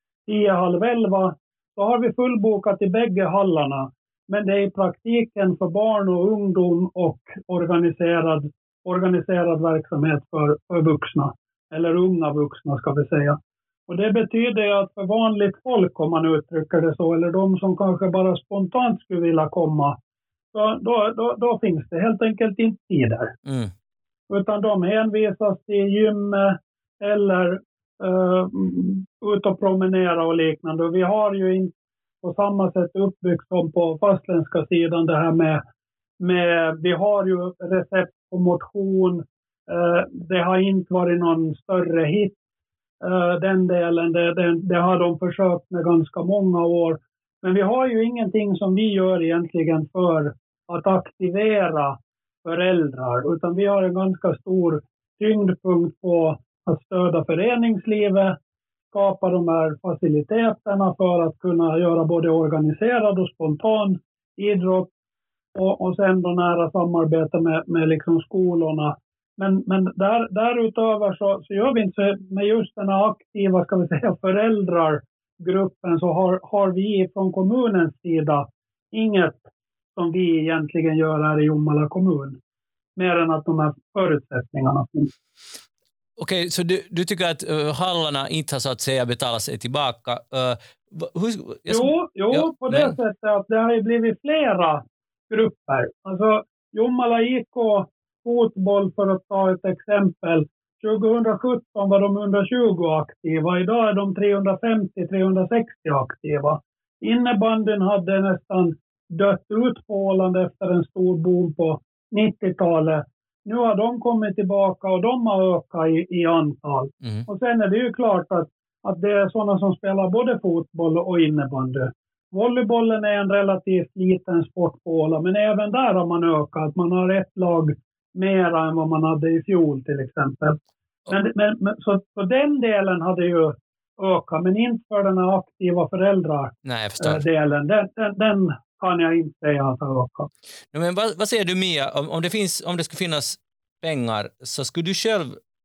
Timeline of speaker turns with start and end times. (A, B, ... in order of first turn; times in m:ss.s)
0:00.3-0:20.0 A
0:20.5-0:23.3 A
0:23.4-0:23.7 B
0:24.3-0:35.6 A
0:36.2-0:42.3 A
0:43.0-0:58.4 A
0:58.9-1:04.9 A
1:05.5-1:19.4 A
1:19.9-1:22.4 A
1:23.0-1:25.1 A
1:26.2-1:32.9 B
1:31.7-2:10.6 A
2:11.1-2:20.3 A
2:16.6-2:17.2 B
2:20.7-2:25.4 B